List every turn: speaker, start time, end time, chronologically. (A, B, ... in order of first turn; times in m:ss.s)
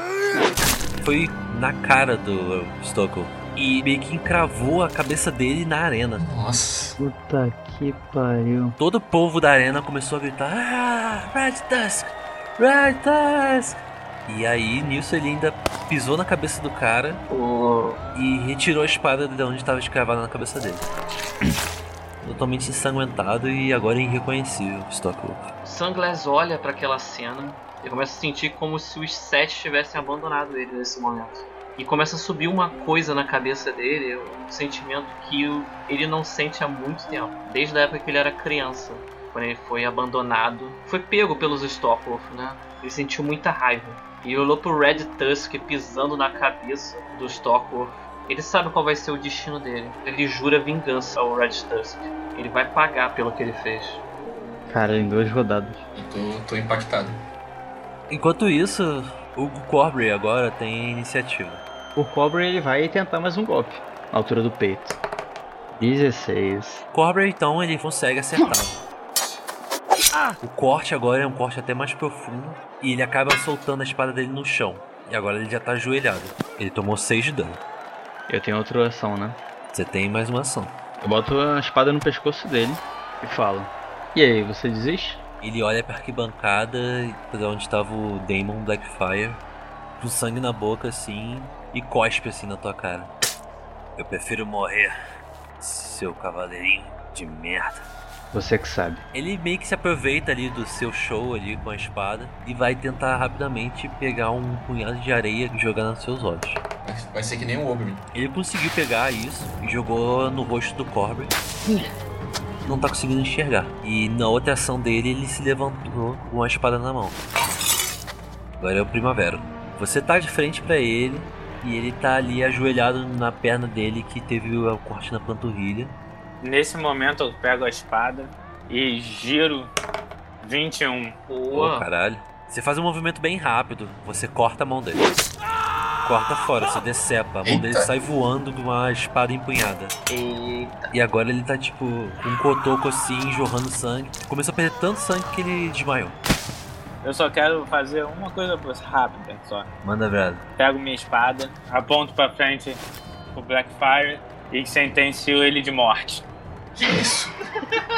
0:01.0-0:06.2 A
0:06.2-0:07.0 B
0:07.0-0:08.8 C
0:08.8-0:17.2 A
0:17.3-0:18.0 D
0:18.1-0:20.9 A
0:22.2-0:25.5 A
0:25.6-0:54.0 D
0:54.7-0:55.8 C
0:55.9-0:57.1 B
0:58.1-1:01.6 A
1:02.0-1:05.0 C
1:05.8-1:06.8 C
1:06.9-1:08.8 A
1:10.4-1:17.6 A
1:18.3-1:19.4 C
1:19.7-1:20.8 A
1:21.0-1:25.2 C
1:25.4-1:29.4 A
1:30.0-1:33.1 A
1:34.0-1:34.9 A
1:35.6-1:37.9 A
1:38.3-1:39.0 C
1:39.1-1:46.6 A
1:46.8-1:48.0 B
1:48.1-1:51.4 A
1:52.6-1:57.2 A
1:58.6-2:06.0 A
2:06.4-2:09.7 E
2:10.4-2:11.2 E
2:11.3-2:11.9 D
2:11.5-2:15.2 A
2:16.0-2:19.9 A
2:17.4-2:17.9 B
2:20.1-2:20.9 D
2:20.9-2:26.2 A
2:27.0-2:29.7 E
2:29.8-2:30.4 A
2:30.6-2:32.8 E
2:33.3-2:36.2 E
2:36.8-2:37.3 B